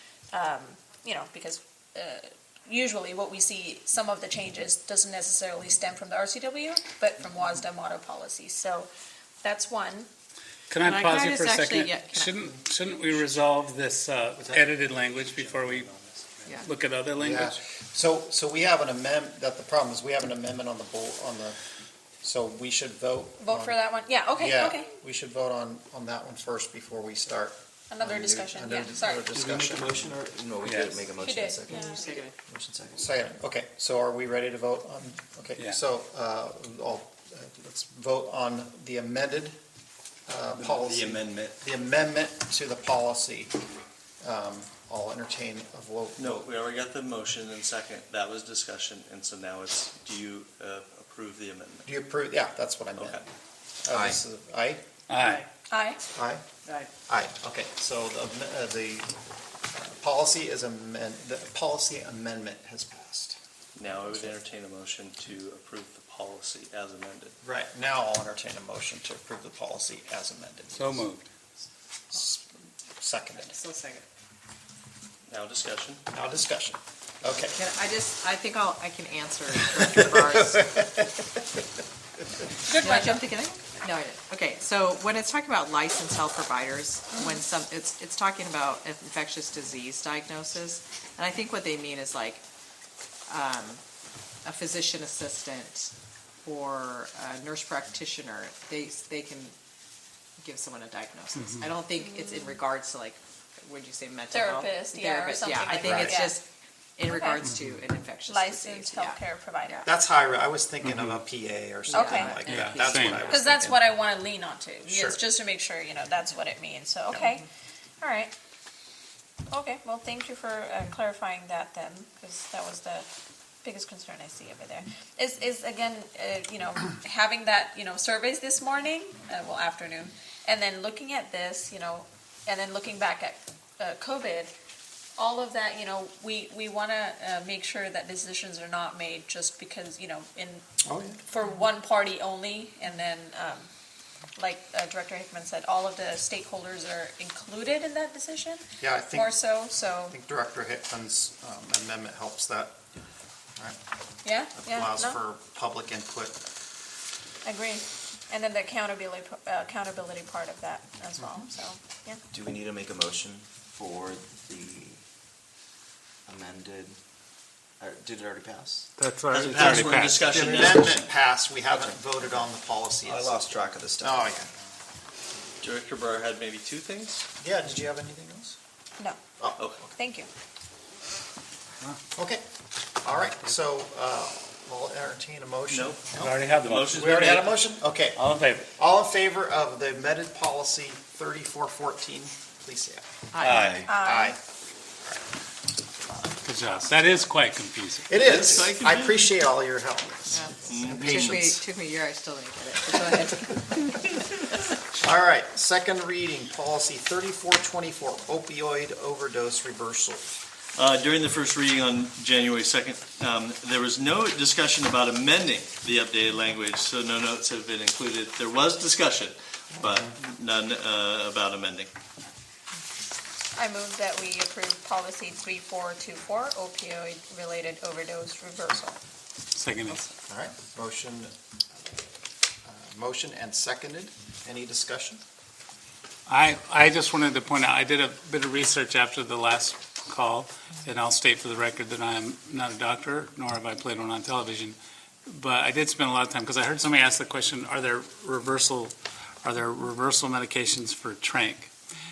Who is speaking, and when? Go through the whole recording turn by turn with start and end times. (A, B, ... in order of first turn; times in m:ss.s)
0:00.3-0:08.9 A
0:09.4-0:10.1 A
0:10.7-0:15.9 B
0:10.8-0:12.6 C
0:14.4-0:14.7 D
0:15.2-0:16.2 D
0:16.5-0:17.6 B
0:17.2-0:21.6 D
0:22.2-0:30.0 D
0:23.4-0:24.9 A
0:27.9-0:29.3 A
0:29.3-0:33.1 E
0:30.6-0:31.0 B
0:31.2-0:32.2 A
0:31.7-0:32.4 C
0:33.0-0:39.6 D
0:40.3-0:43.5 D
0:40.6-0:41.5 F
0:44.2-0:46.5 D
0:46.2-0:51.9 F
0:51.9-0:53.2 D
0:53.0-0:53.3 F
0:53.8-0:54.8 D
0:53.9-0:54.2 E
0:55.1-0:55.4 B
0:55.7-0:56.0 A
0:56.2-0:56.4 D
0:57.1-0:59.1 D
0:59.7-1:03.4 D
1:03.8-1:07.4 F
1:04.0-1:04.4 D
1:07.4-1:11.1 D
1:10.8-1:11.3 B
1:12.1-1:12.5 D
1:13.0-1:13.6 D
1:13.4-1:14.1 C
1:15.3-1:16.0 F
1:16.1-1:17.6 D
1:17.5-1:20.9 C
1:19.9-1:21.3 D
1:22.7-1:23.2 A
1:22.7-1:32.4 C
1:33.3-1:33.8 C
1:34.4-1:35.9 C
1:36.4-1:39.6 C
1:40.4-1:49.9 C
1:41.4-1:41.7 B
1:42.0-1:42.6 A
1:44.3-1:46.4 A
1:45.7-1:46.2 D
1:47.1-1:47.5 A
1:48.3-1:49.8 A
1:49.8-1:53.9 D
1:50.8-1:51.2 B
1:51.9-1:53.2 C
1:51.9-1:52.4 A
1:52.4-1:53.2 B
1:53.2-1:57.5 A
1:54.9-1:55.2 D
1:58.0-1:58.3 A
1:59.5-2:03.1 A
2:03.6-2:14.5 A
2:15.2-2:20.6 A
2:20.8-2:21.2 D
2:21.2-2:23.7 A
2:24.4-2:30.2 A
2:28.8-2:29.4 D
2:30.1-2:32.8 D
2:34.2-2:35.2 A
2:34.6-2:36.4 D
2:37.4-2:42.2 A
2:42.3-2:45.0 E
2:46.3-2:47.0 E
2:47.8-2:48.9 E
2:49.0-2:50.2 B
2:49.3-2:51.0 F
2:49.5-2:49.8 E
2:50.2-2:53.4 D
2:50.4-2:50.8 E
2:51.7-2:52.5 E
2:53.0-2:54.5 E
2:54.0-2:54.5 D
2:55.6-2:57.2 F
2:57.4-2:58.6 D
2:59.4-2:59.9 D
3:00.0-3:00.3 A
3:02.1-3:02.4 D
3:03.0-3:14.4 D
3:05.7-3:07.5 F
3:06.2-3:08.7 B
3:13.3-3:13.9 C
3:13.4-3:13.9 B
3:13.8-3:14.4 A
3:16.4-3:18.4 B
3:18.1-3:21.6 D
3:18.1-3:19.3 F
3:20.3-3:24.8 C
3:20.7-3:21.5 F
3:25.0-3:30.4 D
3:30.8-3:41.9 F
3:39.8-3:40.0 D
3:43.6-3:49.0 A
3:49.6-3:50.0 B
3:50.3-3:51.3 D
3:52.6-3:55.2 D
3:56.3-4:11.7 B